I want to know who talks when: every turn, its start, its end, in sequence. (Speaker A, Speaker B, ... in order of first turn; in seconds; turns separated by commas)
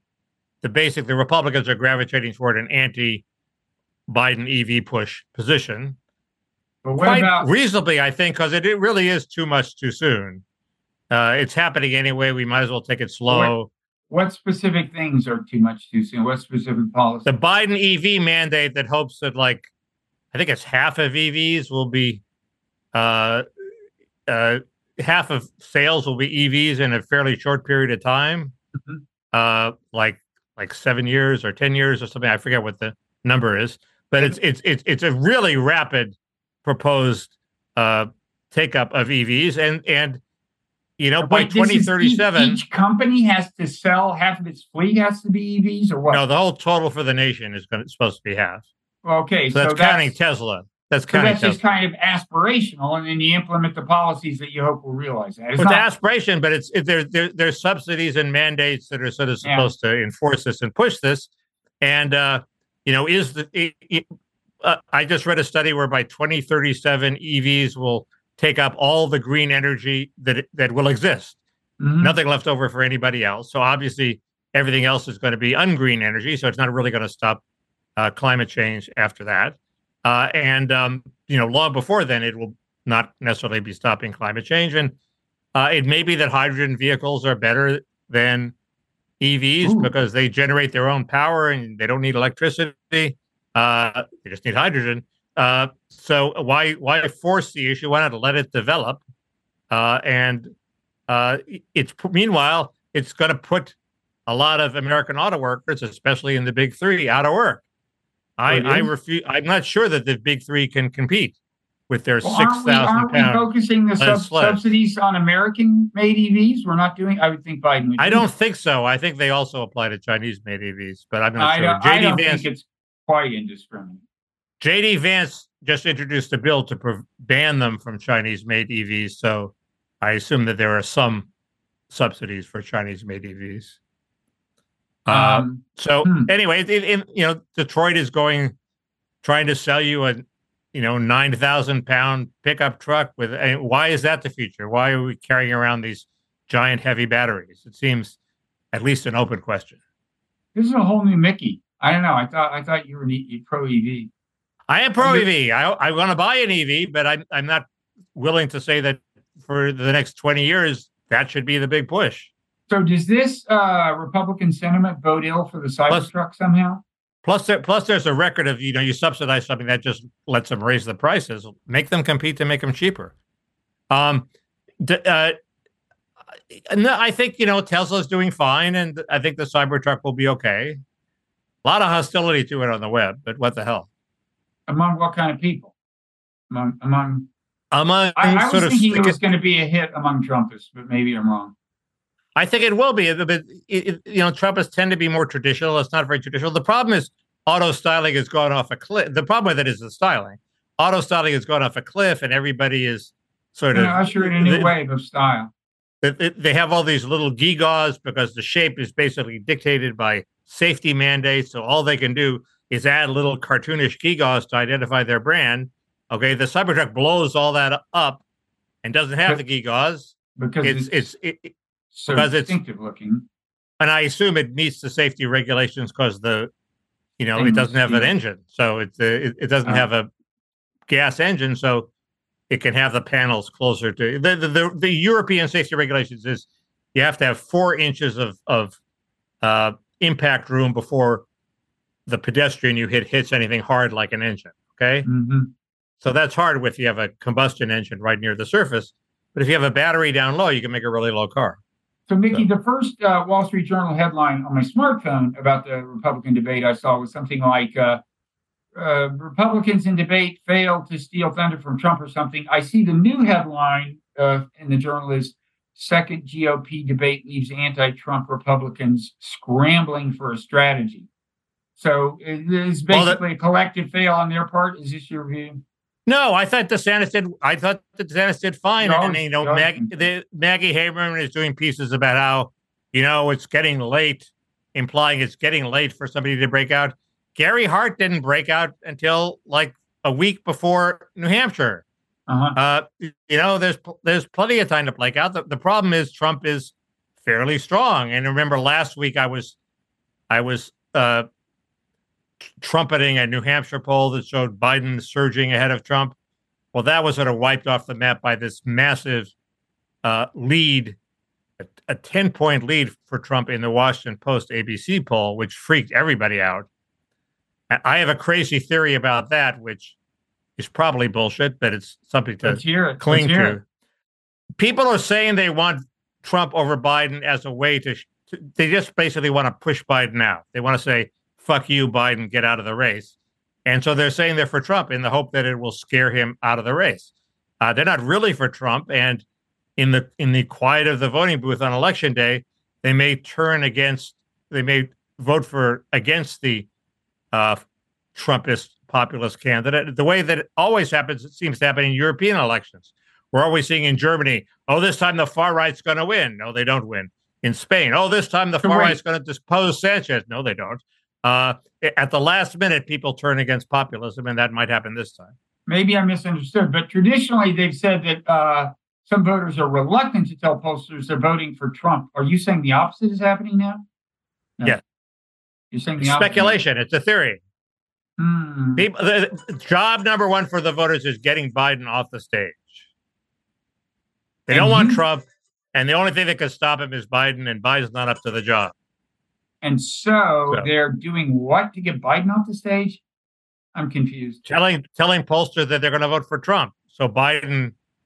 Speaker A: 0.6-3.2, Speaker A: 4.1-6.0, Speaker B: 6.8-7.5, Speaker A: 7.0-10.4, Speaker A: 11.1-13.7, Speaker B: 13.3-13.5, Speaker B: 14.1-17.3, Speaker A: 17.2-19.7, Speaker A: 20.3-22.2, Speaker A: 22.9-23.4, Speaker A: 24.3-28.5, Speaker A: 29.3-40.2, Speaker A: 41.0-42.6, Speaker B: 41.2-46.2, Speaker A: 46.1-48.6, Speaker B: 49.0-50.1, Speaker A: 49.5-51.6, Speaker B: 51.1-55.8, Speaker A: 55.6-61.3, Speaker B: 59.4-59.7, Speaker A: 61.8-64.0, Speaker A: 64.6-71.3, Speaker B: 71.8-72.2, Speaker A: 72.0-77.4, Speaker A: 78.0-84.9, Speaker A: 85.5-88.5, Speaker A: 89.2-99.0, Speaker B: 89.6-89.9, Speaker A: 99.7-100.5, Speaker A: 101.1-103.8, Speaker A: 104.3-107.6, Speaker A: 108.4-111.3, Speaker B: 108.5-108.9, Speaker A: 111.9-113.5, Speaker B: 112.2-118.3, Speaker A: 114.0-114.6, Speaker A: 118.0-122.4, Speaker B: 121.4-124.0, Speaker A: 124.6-131.3, Speaker A: 131.9-133.8, Speaker A: 135.1-138.5, Speaker B: 135.1-136.3, Speaker A: 139.2-148.2, Speaker A: 148.7-149.8, Speaker B: 150.5-154.1, Speaker A: 154.7-162.3, Speaker B: 155.0-155.3, Speaker B: 162.7-166.8, Speaker A: 167.2-173.1, Speaker A: 173.9-174.3, Speaker A: 174.8-175.3, Speaker A: 176.5-180.8, Speaker A: 181.6-183.9, Speaker B: 184.7-185.7, Speaker B: 186.5-187.3, Speaker A: 187.7-189.2, Speaker B: 188.1-191.5, Speaker A: 192.3-204.7, Speaker B: 203.7-205.5, Speaker A: 206.0-218.2, Speaker A: 218.8-221.5, Speaker B: 220.4-221.1, Speaker B: 221.9-223.2, Speaker A: 222.1-222.6, Speaker A: 223.8-226.5, Speaker A: 227.2-230.1, Speaker B: 227.3-228.1, Speaker A: 230.9-231.9, Speaker A: 232.5-238.8, Speaker A: 239.4-241.2, Speaker A: 242.1-245.1, Speaker B: 245.1-245.5, Speaker A: 246.0-251.6, Speaker B: 252.1-258.0, Speaker B: 258.8-271.1, Speaker B: 271.8-275.6, Speaker A: 272.9-273.2, Speaker A: 276.1-291.8, Speaker B: 278.8-280.1, Speaker B: 292.3-292.6, Speaker A: 292.6-299.6, Speaker A: 300.3-301.3, Speaker A: 302.4-306.1, Speaker A: 306.7-309.3, Speaker A: 310.0-311.0, Speaker A: 311.6-316.7, Speaker A: 317.7-319.9, Speaker A: 320.6-323.6, Speaker B: 322.4-323.6, Speaker A: 324.6-333.1, Speaker A: 333.6-337.1, Speaker A: 337.6-339.2, Speaker A: 339.8-346.7, Speaker A: 347.3-347.6, Speaker A: 348.1-365.3, Speaker B: 358.6-359.0, Speaker B: 365.7-373.8, Speaker B: 375.7-376.6, Speaker A: 376.0-377.4, Speaker B: 378.2-378.8, Speaker A: 378.8-382.8, Speaker A: 384.5-388.7, Speaker B: 384.5-385.0, Speaker B: 389.6-393.0, Speaker B: 393.7-394.4, Speaker A: 394.4-397.7